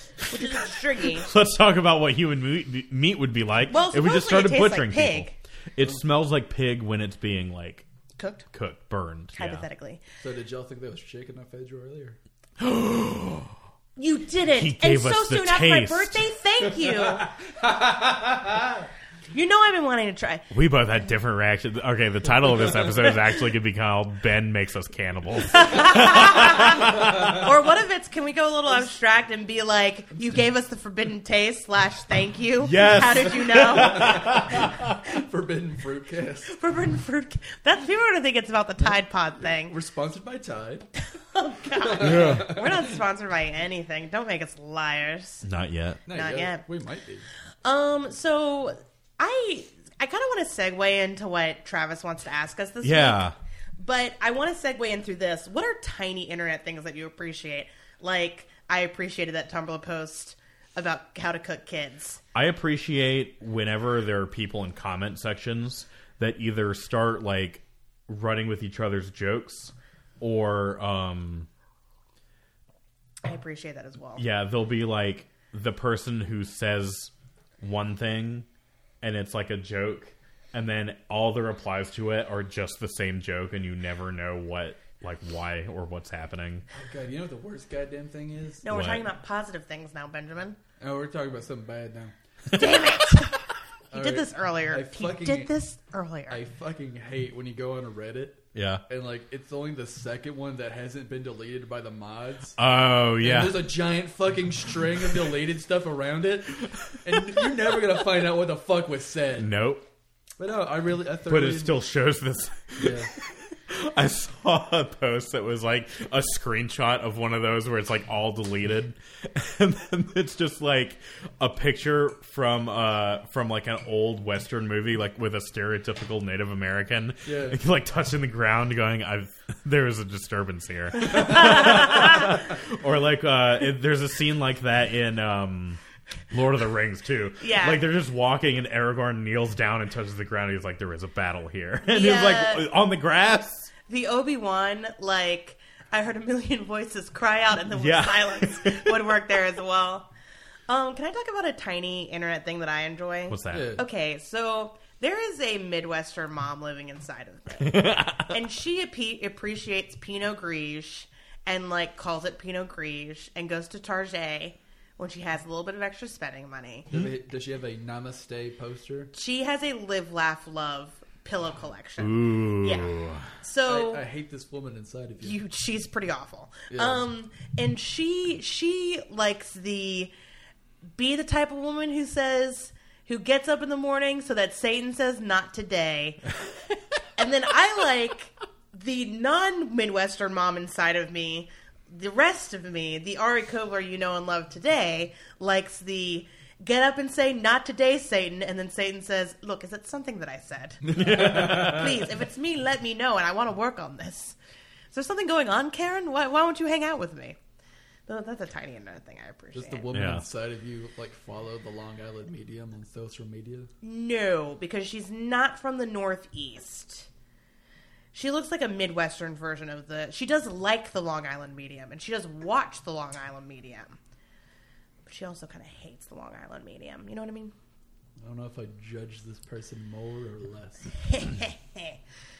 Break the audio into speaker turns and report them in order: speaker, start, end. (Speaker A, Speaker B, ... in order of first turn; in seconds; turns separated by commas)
Speaker A: 0.3-1.3, Speaker B: 0.3-7.8, Speaker A: 3.7-5.4, Speaker A: 8.2-8.4, Speaker B: 8.5-9.7, Speaker A: 9.3-10.0, Speaker C: 10.2-12.2, Speaker B: 12.6-13.6, Speaker A: 14.0-17.3, Speaker B: 14.5-16.2, Speaker C: 17.6-18.4, Speaker A: 19.3-20.4, Speaker B: 20.5-27.4, Speaker A: 25.5-34.4, Speaker B: 32.6-35.0, Speaker C: 33.6-36.5, Speaker A: 36.5-39.7, Speaker C: 38.8-40.9, Speaker A: 41.0-45.5, Speaker C: 41.7-42.9, Speaker B: 42.0-42.6, Speaker B: 45.4-46.0, Speaker C: 46.0-47.3, Speaker A: 46.1-46.6, Speaker A: 47.6-62.2, Speaker B: 52.8-53.3, Speaker B: 62.3-71.5, Speaker A: 73.2-74.2, Speaker B: 74.2-78.5, Speaker B: 79.0-86.6, Speaker C: 86.7-88.7, Speaker A: 88.6-90.6, Speaker B: 88.7-89.1, Speaker C: 90.8-92.1, Speaker A: 92.5-96.4, Speaker C: 93.9-95.5, Speaker C: 96.3-102.6, Speaker B: 98.5-98.8, Speaker B: 102.6-103.7, Speaker C: 103.2-109.5, Speaker B: 106.9-107.2, Speaker B: 109.4-109.9, Speaker C: 110.4-111.8, Speaker B: 111.3-143.7, Speaker C: 112.8-113.1, Speaker C: 127.2-127.6, Speaker A: 131.3-132.2, Speaker A: 137.4-137.8, Speaker A: 141.8-142.7, Speaker A: 143.9-150.1, Speaker B: 147.8-149.2, Speaker A: 150.7-166.9, Speaker B: 153.3-153.8, Speaker C: 153.5-153.8, Speaker B: 157.6-158.4, Speaker C: 166.9-169.1, Speaker A: 169.1-174.0, Speaker B: 172.0-173.3, Speaker C: 173.6-175.4, Speaker A: 175.2-180.1, Speaker C: 176.7-177.0, Speaker A: 180.9-186.3, Speaker A: 187.2-204.3, Speaker C: 200.9-201.8, Speaker B: 200.9-201.9, Speaker A: 204.9-207.4, Speaker A: 208.1-209.9, Speaker C: 209.5-213.7, Speaker B: 209.9-210.2, Speaker A: 213.8-217.1, Speaker A: 218.1-224.0, Speaker A: 225.1-227.5, Speaker C: 228.2-230.9, Speaker A: 231.0-232.0